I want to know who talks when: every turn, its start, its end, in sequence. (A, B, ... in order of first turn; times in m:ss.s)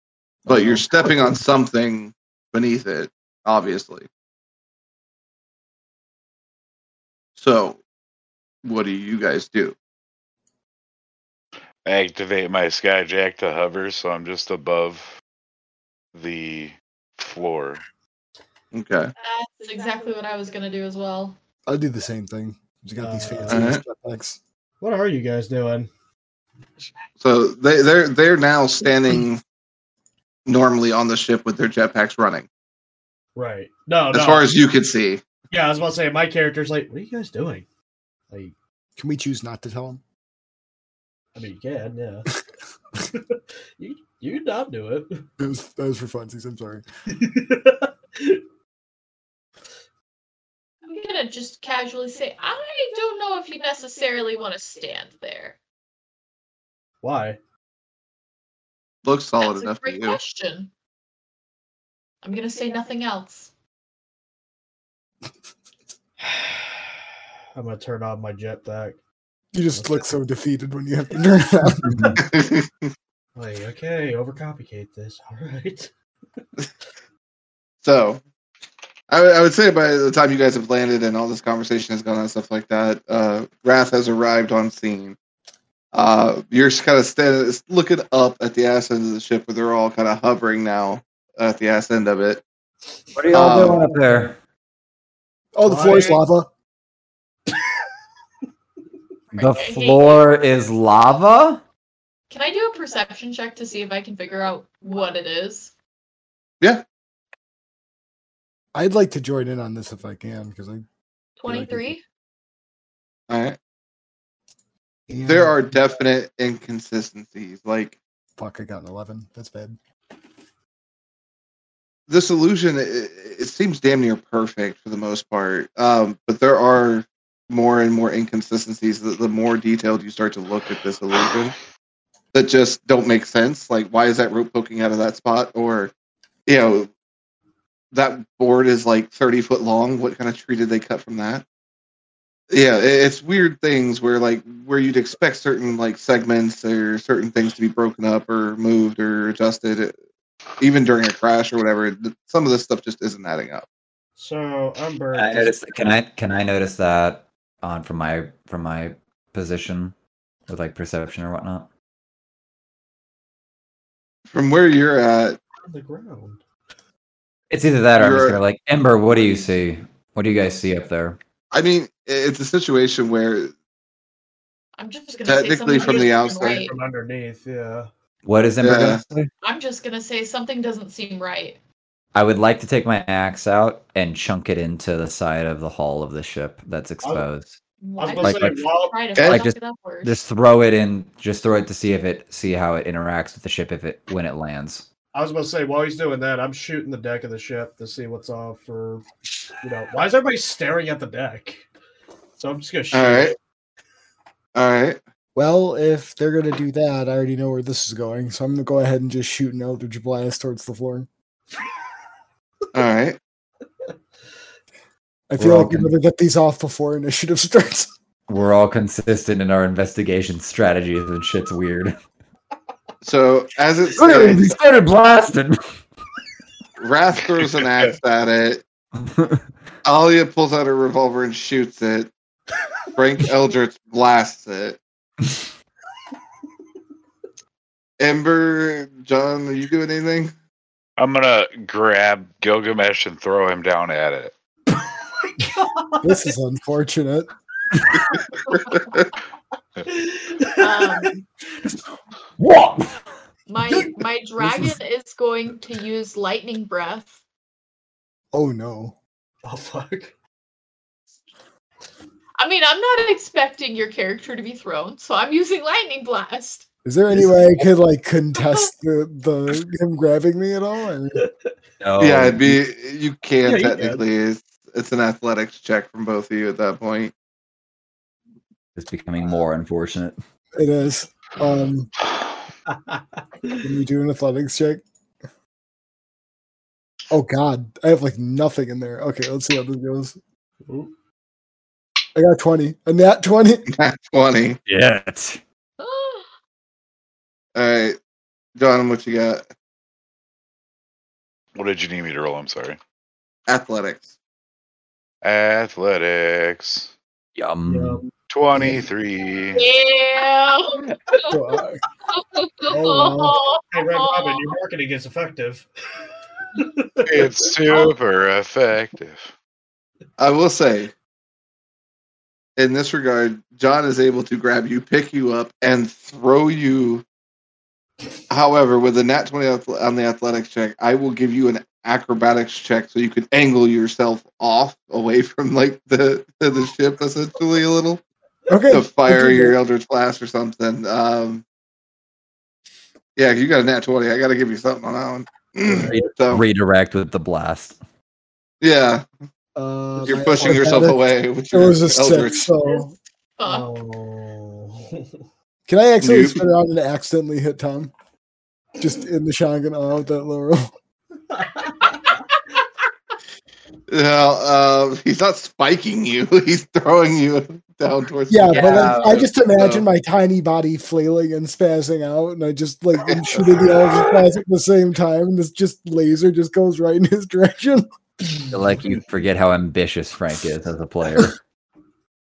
0:00.5-0:04.1 A
0:07.4-0:07.8 A
0:08.6-0:09.8 A
0:11.8-0:15.1 B
0:16.1-0:17.8 B
0:18.7-0:19.1 A
0:19.2-0:21.4 C
0:21.7-0:24.4 D
0:23.0-0:23.7 E
0:23.5-0:23.8 A
0:24.8-0:25.9 E
0:27.2-0:29.4 A
0:30.4-0:32.5 A
0:33.4-0:34.5 E
0:34.1-0:35.2 A
0:35.5-0:37.7 E
0:38.3-0:38.6 E
0:39.0-0:40.0 D
0:41.4-0:42.3 E
0:43.1-0:45.3 E
0:45.4-0:46.8 D
0:47.1-0:48.4 E
0:50.9-0:55.6 C
0:57.0-0:57.4 E
0:59.0-1:00.2 A
0:59.4-1:00.7 C
1:02.2-1:03.5 C
1:06.2-1:06.8 E
1:07.6-1:09.0 E
1:09.5-1:12.2 D
1:09.7-1:10.1 E
1:11.8-1:12.2 F
1:12.2-1:12.7 A
1:13.4-1:15.9 E
1:17.8-1:18.2 A
1:19.1-1:25.2 A
1:25.9-1:32.4 A
1:33.1-1:34.4 F
1:33.3-1:33.8 A
1:33.3-1:33.8 D
1:35.6-1:36.5 D
1:35.6-1:36.2 E
1:39.3-1:40.2 C
1:39.3-1:41.6 F
1:42.3-1:45.7 C
1:48.7-1:50.9 D
1:51.4-1:52.0 C
1:51.5-1:51.9 D
1:53.3-1:53.6 A
1:55.1-1:55.6 D
1:55.2-1:58.0 A
1:58.4-1:59.8 D
2:02.1-2:11.5 A
2:12.3-2:15.9 A
2:16.4-2:16.9 A
2:17.9-2:21.4 A
2:22.5-2:29.9 A
2:30.6-2:33.6 A
2:34.2-2:35.6 E
2:35.1-2:40.0 F
2:40.5-2:41.7 F
2:44.3-2:45.4 A
2:45.6-2:46.4 E
2:47.5-2:51.2 F
2:48.0-2:48.4 A
2:51.5-2:53.5 A
2:54.8-2:56.7 C
2:55.3-2:56.6 A
2:55.8-2:57.9 E
2:58.2-2:59.3 F
2:58.6-2:59.0 A
2:59.4-3:01.6 C
3:02.1-3:07.6 F
3:07.0-3:07.3 E
3:07.8-3:10.1 C
3:08.0-3:09.0 E
3:08.2-3:08.6 F
3:09.1-3:09.4 A
3:09.2-3:14.9 F
3:15.1-3:19.0 E
3:19.6-3:21.7 E
3:22.4-3:23.4 E
3:22.9-3:23.3 A
3:24.6-3:25.0 A
3:25.4-3:31.1 D
3:32.7-3:33.2 A
3:35.3-3:37.9 D
3:35.4-3:35.9 F
3:38.3-3:42.0 F
3:43.0-3:44.6 A
3:44.0-3:45.6 F
3:46.8-3:48.6 A
3:49.0-3:49.4 F
3:49.8-3:52.1 A
3:53.0-3:54.8 A
3:58.0-4:00.3 A
4:01.0-4:04.3 B
4:05.4-4:06.2 E
4:06.0-4:07.3 D
4:09.9-4:11.1 E
4:10.6-4:11.2 C
4:12.4-4:13.0 F
4:13.5-4:17.2 C
4:14.4-4:14.7 D
4:18.3-4:19.0 D
4:19.4-4:20.1 E
4:22.4-4:26.7 C
4:26.8-4:31.2 D
4:28.4-4:28.7 C
4:31.2-4:31.5 E
4:31.8-4:32.6 F
4:32.0-4:37.1 A
4:33.4-4:34.0 E
4:38.7-4:40.2 F
4:40.6-4:41.9 D
4:42.7-4:43.6 E
4:43.6-4:44.8 D
4:47.1-4:50.2 D
4:50.7-4:50.9 E
4:52.1-4:53.7 D
4:53.7-4:54.6 A
4:54.7-4:55.4 F
4:55.8-4:56.3 C
4:57.6-4:58.0 A
4:58.6-4:59.4 A
5:01.6-5:02.8 B
5:03.5-5:04.1 A
5:05.2-5:06.9 B
5:07.4-5:08.0 F
5:07.7-5:08.1 E
5:08.3-5:09.6 B
5:09.6-5:11.4 C
5:11.3-5:11.8 D
5:12.1-5:14.5 C
5:12.7-5:13.4 D
5:13.7-5:15.7 E
5:16.6-5:17.9 E
5:17.1-5:19.3 B
5:20.2-5:20.9 A
5:22.6-5:27.0 A
5:28.3-5:38.0 A
5:38.5-5:39.6 D
5:38.7-5:41.4 A
5:43.2-5:46.4 A
5:45.6-5:46.0 E
5:45.9-5:47.8 F
5:48.6-5:49.0 A
5:49.6-5:52.9 D
5:50.0-5:50.9 E
5:50.1-5:52.5 A
5:53.4-5:53.8 C
5:53.4-5:55.2 E
5:55.7-5:57.9 D
5:56.0-5:56.4 A
5:58.8-6:00.7 D
6:01.3-6:02.1 E
6:03.9-6:09.8 A
6:08.3-6:17.9 D
6:08.5-6:09.3 F
6:18.5-6:21.4 F